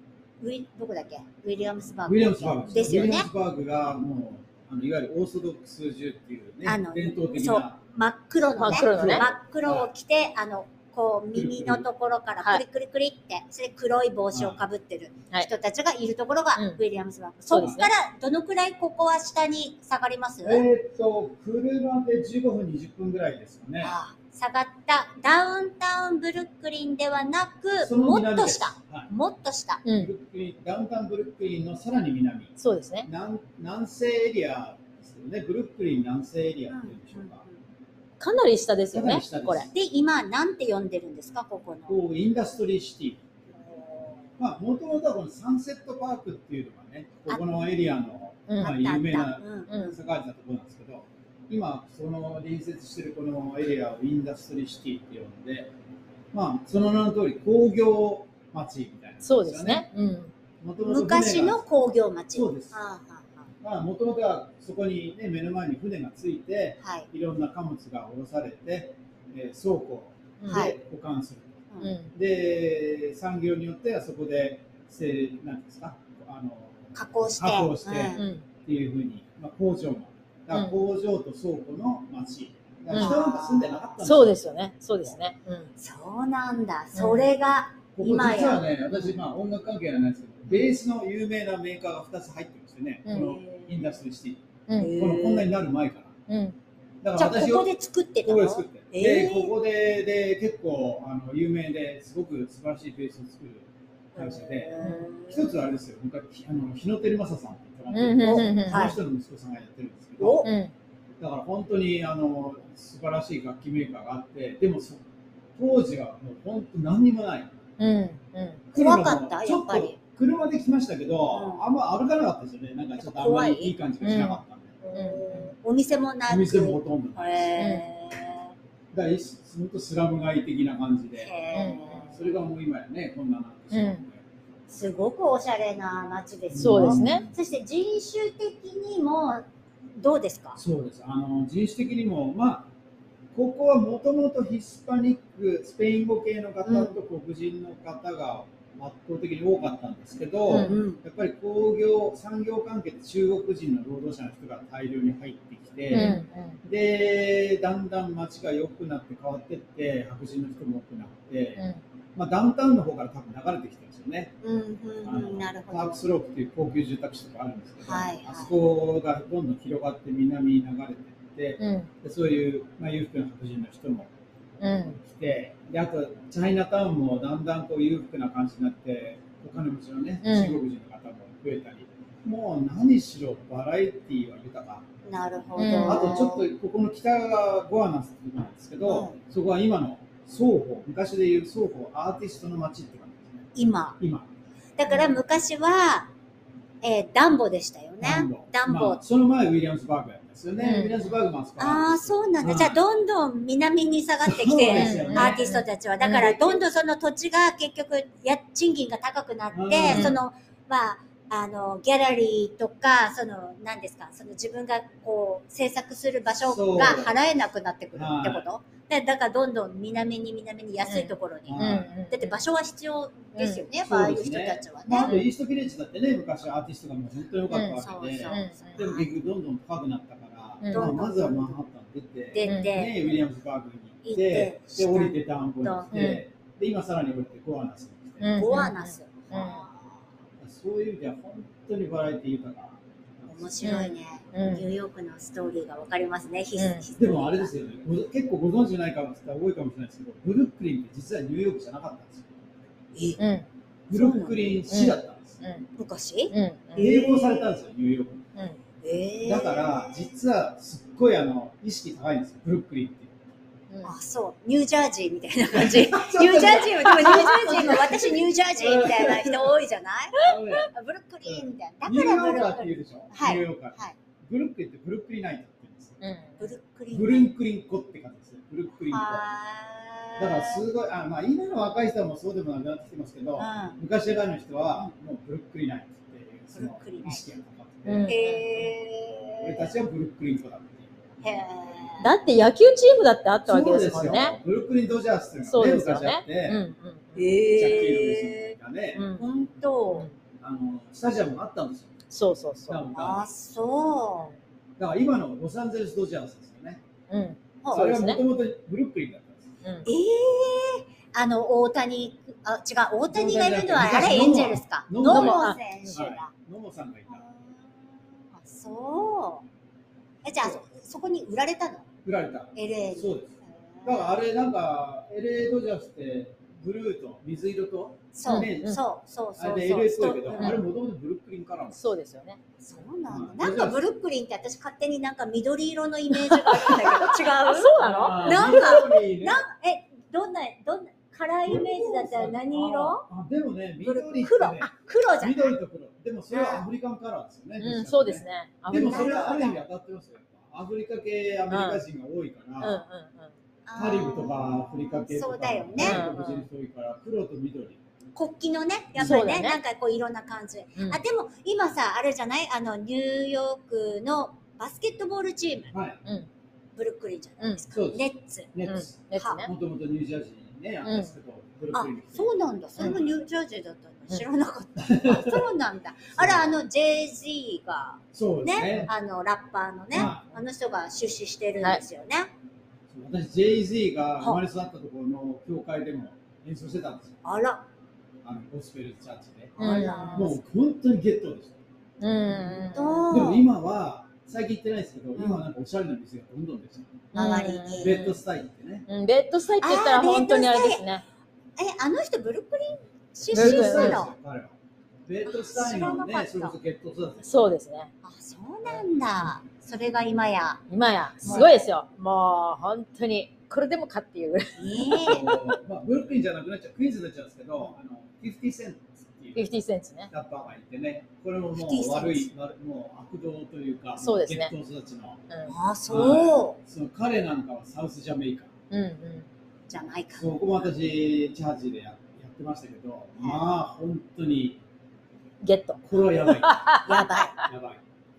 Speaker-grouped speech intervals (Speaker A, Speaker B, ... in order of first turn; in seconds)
Speaker A: 0.4-3.3, 6.6-20.6, 23.8-29.8, 36.7-37.5, 39.7-42.0, 43.5-44.3, 48.6-49.9, 60.8-63.5, 66.8-67.1, 70.5-70.7, 76.9-78.2, 82.9-83.8, 85.8-89.1, 93.1-94.0, 94.8-95.5, 97.2-99.5, 104.1-105.5, 108.2-109.0, 110.2-110.5, 118.7-120.0, 121.3-121.6, 123.0-123.7, 124.8-128.5, 131.2-132.3, 134.7-140.6, 146.6-146.9, 150.5-151.0, 155.9-156.2, 164.4-166.0, 167.8-168.5, 185.1-186.4, 188.8-189.2, 193.5-194.0, 194.8-196.1, 196.8-199.0, 201.6-225.2, 227.7-229.1, 230.7-231.6, 232.3-233.2, 234.0-236.1, 238.3-240.0, 243.3-247.5, 253.9-254.6, 255.8-257.6, 258.8-260.0, 263.8-273.9, 276.4-277.3, 278.8-280.6, 283.4-283.8, 286.5-287.2, 288.1-289.7, 291.2-292.1, 297.1-298.5, 299.2-300.1, 302.9-304.3, 307.6-307.9, 309.8-316.3, 317.1-319.4, 320.2-321.9, 322.5-324.1, 328.1-330.6, 332.6-343.1, 343.8-345.6, 346.3-346.6, 348.7-349.6, 353.6-356.0, 358.1-365.7, 366.8-368.5, 371.7-382.3, 387.2-387.6, 389.6-390.4, 392.7-393.4, 395.1-395.4, 397.1-398.0, 399.6-400.9, 401.6-404.1, 405.2-406.6, 408.0-410.6, 411.2-411.6, 414.6-415.3, 421.5-422.3, 425.5-426.6, 429.7-430.7, 433.2-433.4, 436.8-437.4
Speaker B: 2.0-7.8, 8.8-9.9, 11.3-11.8, 14.3-14.6, 20.4-23.9, 27.8-29.1, 29.9-37.4, 38.9-39.7, 41.9-43.2, 44.4-55.7, 56.3-59.9, 60.6-61.6, 62.3-62.8, 63.6-71.6, 72.1-84.4, 88.0-96.1, 97.0-97.7, 98.2-110.5, 111.2-115.0, 115.5-117.6, 118.7-124.8, 126.3-127.7, 128.9-134.2, 136.5-137.3, 140.6-142.7, 143.3-161.6, 162.1-164.3, 165.0-174.1, 175.0-184.8, 185.8-193.4, 194.0-194.3, 198.0-202.8, 204.2-205.5, 206.1-206.6, 209.5-210.2, 216.4-217.2, 217.9-218.4, 221.5-221.9, 223.8-238.6, 240.4-243.7, 247.0-252.3, 253.9-255.4, 256.8-258.2, 259.2-263.1, 265.5-269.5, 270.2-270.7, 271.2-276.0, 276.9-279.3, 280.2-288.1, 289.4-290.9, 293.4-296.6, 297.5-299.1, 300.4-301.9, 302.7-303.3, 304.8-306.8, 307.7-309.5, 313.1-317.2, 322.0-328.8, 329.4-331.8, 333.1-333.8, 337.8-339.4, 341.4-352.8, 353.8-357.8, 358.9-359.2, 365.7-366.0, 367.7-373.1, 374.8-375.5, 376.1-376.6, 378.1-378.9, 379.9-380.4, 382.9-387.1, 388.2-391.6, 393.1-397.1, 397.8-398.9, 403.2-404.5, 405.1-407.4, 411.2-411.6, 415.0-419.5, 420.1-425.2, 425.9-428.5, 430.1-434.6, 435.8-437.8
Speaker C: 8.6-9.2, 17.5-17.9, 29.8-30.1, 32.6-33.1, 38.2-39.7, 48.5-48.8, 49.7-49.9, 59.2-60.3, 70.4-70.7, 71.8-72.1, 78.1-78.4, 82.9-83.2, 84.0-85.7, 86.9-87.3, 93.1-93.4, 94.7-94.9, 96.3-96.5, 104.8-105.1, 107.9-108.9, 110.4-110.7, 117.8-118.6, 124.0-124.4, 124.9-125.5, 127.6-127.8, 131.5-132.1, 133.7-134.0, 136.6-137.2, 155.9-156.6, 171.6-171.9, 174.6-175.0, 180.2-180.6, 185.6-186.1, 200.6-201.0, 204.7-206.3, 209.9-210.2, 220.8-222.3, 223.4-223.6, 227.5-228.8, 230.6-230.9, 232.4-232.7, 235.9-236.2, 238.2-239.6, 243.6-244.7, 246.6-246.8, 253.2-253.4, 254.7-255.7, 256.3-256.8, 276.0-276.5, 287.9-288.7, 292.0-294.4, 295.5-297.1, 298.9-299.2, 302.1-302.8, 307.1-308.2, 315.1-315.6, 328.2-328.8, 331.7-332.4, 336.3-338.8, 347.6-349.3, 351.5-351.8, 352.6-353.3, 355.8-356.4, 359.0-359.6, 368.7-369.5, 370.9-371.1, 389.6-390.3, 392.0-393.1, 397.1-398.2, 398.9-401.0, 403.3-404.0, 407.2-407.9, 410.7-415.4, 419.4-420.1, 424.0-424.5, 428.7-429.3, 435.4-437.4